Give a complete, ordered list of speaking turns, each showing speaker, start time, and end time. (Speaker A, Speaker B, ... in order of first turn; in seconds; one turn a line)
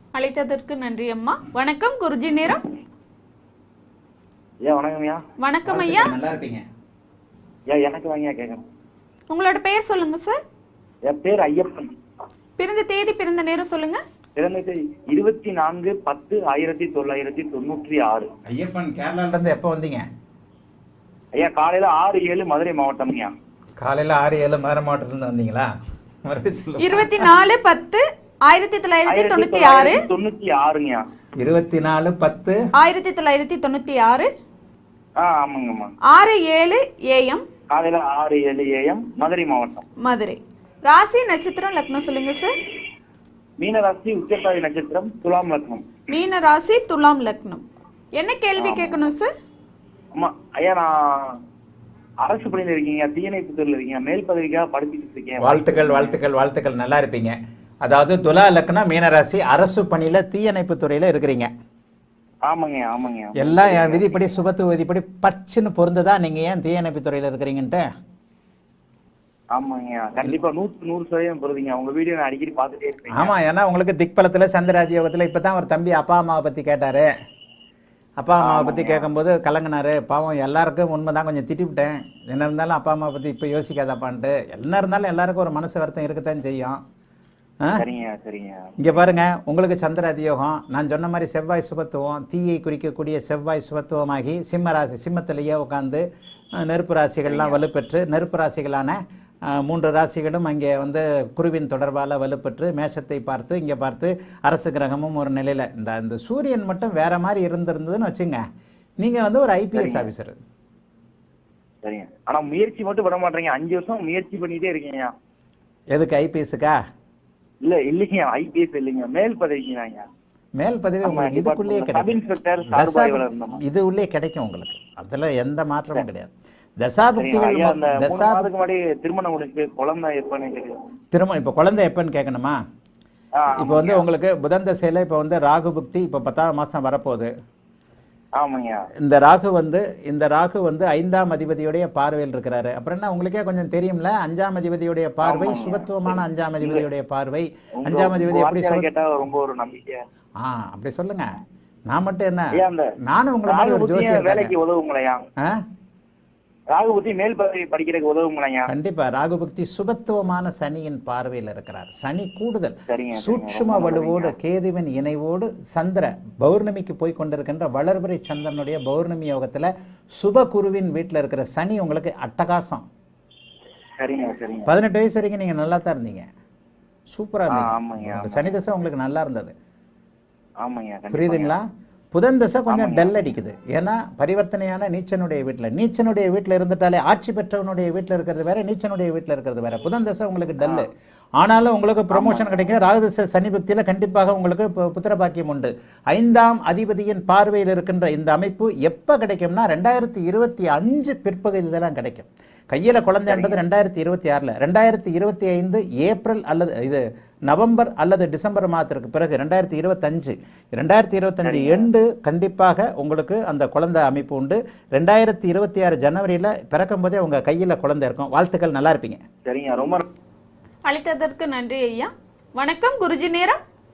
Speaker A: 0.1-2.6
Speaker B: 4.7-5.2
Speaker A: 5.4-6.1
Speaker C: 5.7-6.6
Speaker B: 7.7-8.6
Speaker A: 9.3-10.4
Speaker B: 11.1-11.9
Speaker A: 12.6-14.0
Speaker B: 14.4-18.3
Speaker C: 18.5-20.0
Speaker B: 21.3-23.3
Speaker C: 23.8-25.7
Speaker C: 26.3-27.3
Speaker A: 26.8-30.0
Speaker B: 29.1-31.0
Speaker C: 31.4-32.6
Speaker A: 32.8-34.3
Speaker B: 35.2-35.9
Speaker A: 36.1-37.4
Speaker B: 37.7-39.9
Speaker A: 40.0-42.5
Speaker B: 43.6-45.9
Speaker A: 46.1-47.6
Speaker A: 48.2-49.3
Speaker B: 48.6-49.1
Speaker B: 50.1-51.4
Speaker B: 52.2-56.2
Speaker C: 55.4-61.5
Speaker B: 62.5-64.1
Speaker C: 63.4-67.9
Speaker B: 69.5-73.4
Speaker C: 73.1-77.1
Speaker C: 78.2-86.8
Speaker B: 78.4-79.1
Speaker B: 87.8-88.8
Speaker C: 88.8-96.0
Speaker C: 96.6-99.0
Speaker B: 97.3-97.6
Speaker C: 99.5-108.4
Speaker C: 109.0-110.3
Speaker B: 109.8-110.1
Speaker B: 111.8-115.1
Speaker C: 115.9-116.8
Speaker B: 117.7-120.1
Speaker C: 120.6-128.6
Speaker B: 121.0-123.6
Speaker B: 127.1-130.8
Speaker C: 131.1-132.6
Speaker B: 133.4-134.1
Speaker C: 133.6-137.3
Speaker B: 138.4-138.8
Speaker C: 139.0-148.9
Speaker B: 145.2-146.9
Speaker B: 147.8-150.0
Speaker C: 150.4-151.3
Speaker C: 151.9-154.6
Speaker B: 152.5-152.9
Speaker B: 153.5-155.2
Speaker B: 156.7-158.7
Speaker C: 158.7-172.8
Speaker B: 162.9-164.4
Speaker B: 174.0-174.7
Speaker C: 174.7-176.3
Speaker C: 177.1-179.5
Speaker B: 177.5-178.6
Speaker B: 180.6-181.6
Speaker C: 181.1-190.9
Speaker B: 182.7-183.2
Speaker B: 190.6-190.9
Speaker C: 191.4-219.2
Speaker B: 192.1-192.7
Speaker B: 203.2-203.6
Speaker B: 211.4-211.9
Speaker B: 219.4-220.1
Speaker A: 220.9-223.6